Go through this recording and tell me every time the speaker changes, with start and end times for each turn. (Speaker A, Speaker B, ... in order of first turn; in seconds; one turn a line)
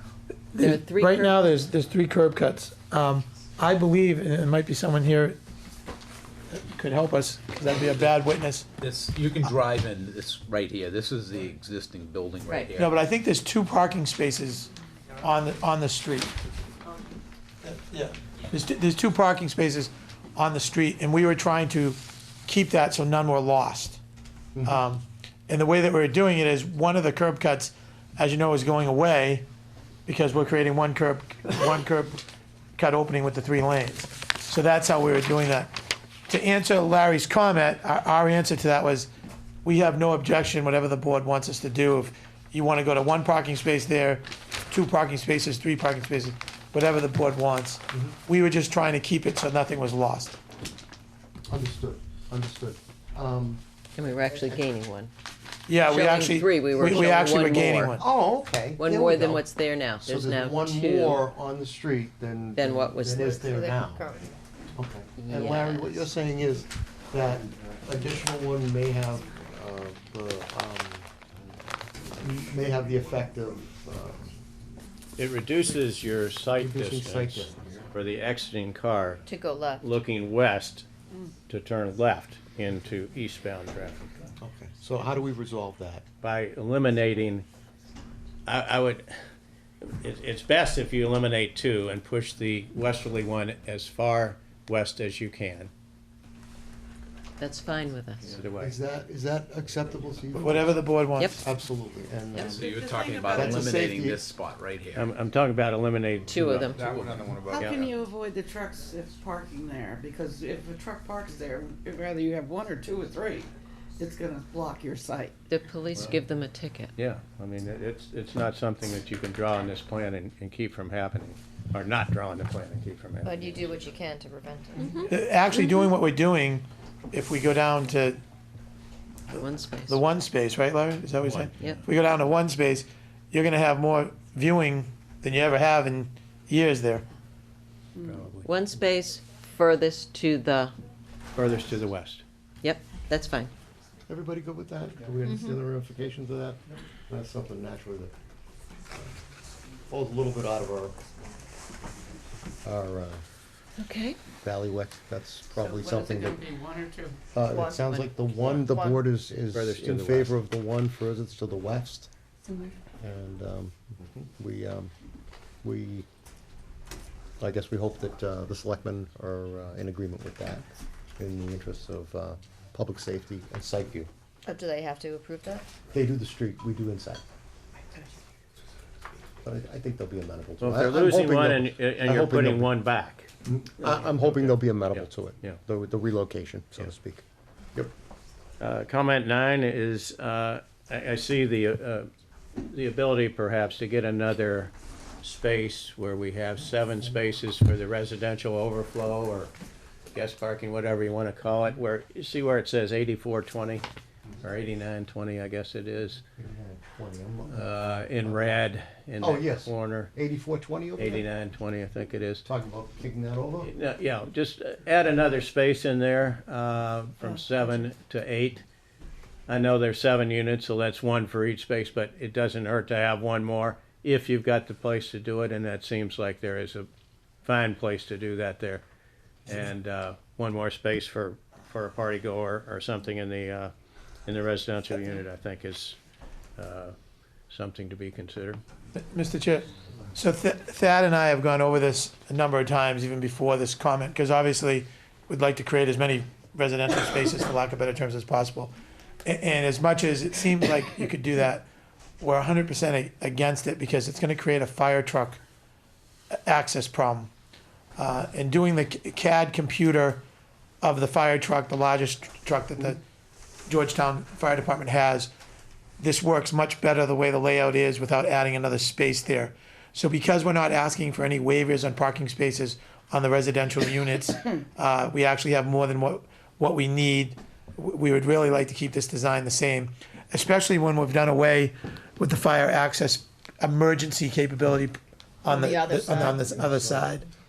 Speaker A: 0.5-5.4
Speaker B: 0.6-1.5
Speaker A: 6.5-8.7
Speaker C: 8.8-13.0
Speaker B: 12.5-12.7
Speaker A: 12.8-16.4
Speaker A: 17.6-24.0
Speaker A: 24.6-29.4
Speaker A: 30.1-32.2
Speaker A: 32.8-35.7
Speaker A: 36.3-39.1
Speaker A: 39.6-50.4
Speaker D: 51.5-53.6
Speaker B: 54.0-55.1
Speaker E: 54.2-54.6
Speaker A: 55.7-58.1
Speaker B: 55.9-58.0
Speaker D: 58.0-64.1
Speaker B: 58.8-61.3
Speaker B: 62.5-63.4
Speaker E: 63.1-64.4
Speaker D: 64.8-71.1
Speaker B: 65.2-66.0
Speaker D: 72.2-74.3
Speaker F: 75.2-79.3
Speaker D: 76.5-77.9
Speaker E: 79.3-79.8
Speaker F: 79.8-80.9
Speaker F: 81.5-84.3
Speaker D: 84.4-86.0
Speaker F: 86.2-87.5
Speaker F: 88.5-89.1
Speaker F: 89.8-95.7
Speaker B: 97.4-98.2
Speaker F: 98.2-98.8
Speaker D: 98.6-100.9
Speaker A: 100.4-101.5
Speaker D: 101.4-102.7
Speaker C: 102.4-105.1
Speaker G: 102.5-103.8
Speaker D: 103.3-104.3
Speaker F: 104.9-107.9
Speaker B: 106.3-106.8
Speaker C: 106.3-107.9
Speaker G: 107.4-115.4
Speaker B: 115.5-116.9
Speaker F: 117.0-123.9
Speaker E: 123.2-125.0
Speaker B: 124.8-125.1
Speaker A: 125.0-128.2
Speaker B: 129.3-130.0
Speaker A: 129.9-137.1
Speaker D: 138.0-138.6
Speaker B: 138.4-140.7
Speaker F: 141.3-142.2
Speaker B: 142.6-143.5
Speaker D: 144.1-148.1
Speaker D: 149.9-151.0
Speaker D: 152.6-153.2
Speaker B: 153.8-154.2
Speaker D: 154.4-156.5
Speaker G: 155.6-157.2
Speaker D: 157.3-162.1
Speaker E: 157.5-159.0
Speaker F: 159.5-160.4
Speaker D: 163.0-164.9
Speaker D: 165.6-166.1
Speaker D: 167.4-174.1
Speaker E: 174.4-175.7
Speaker D: 175.9-177.2
Speaker D: 179.4-182.8
Speaker F: 180.6-185.6
Speaker D: 183.4-187.2
Speaker F: 188.6-199.5
Speaker F: 200.1-203.8
Speaker F: 204.4-206.2
Speaker D: 206.4-208.6
Speaker F: 207.5-210.1
Speaker D: 209.2-211.3
Speaker F: 211.0-212.5
Speaker D: 212.4-213.7
Speaker F: 213.6-218.6
Speaker F: 219.5-226.9
Speaker F: 227.4-228.8
Speaker F: 229.5-233.7
Speaker F: 234.2-236.0
Speaker F: 236.6-236.9
Speaker F: 237.5-238.6
Speaker A: 238.9-248.7
Speaker A: 249.2-251.7
Speaker A: 252.2-255.4
Speaker A: 256.5-257.3
Speaker A: 258.0-260.2
Speaker A: 260.8-263.0
Speaker A: 263.7-265.3
Speaker A: 266.0-287.2
Speaker G: 285.5-286.5
Speaker D: 286.1-287.1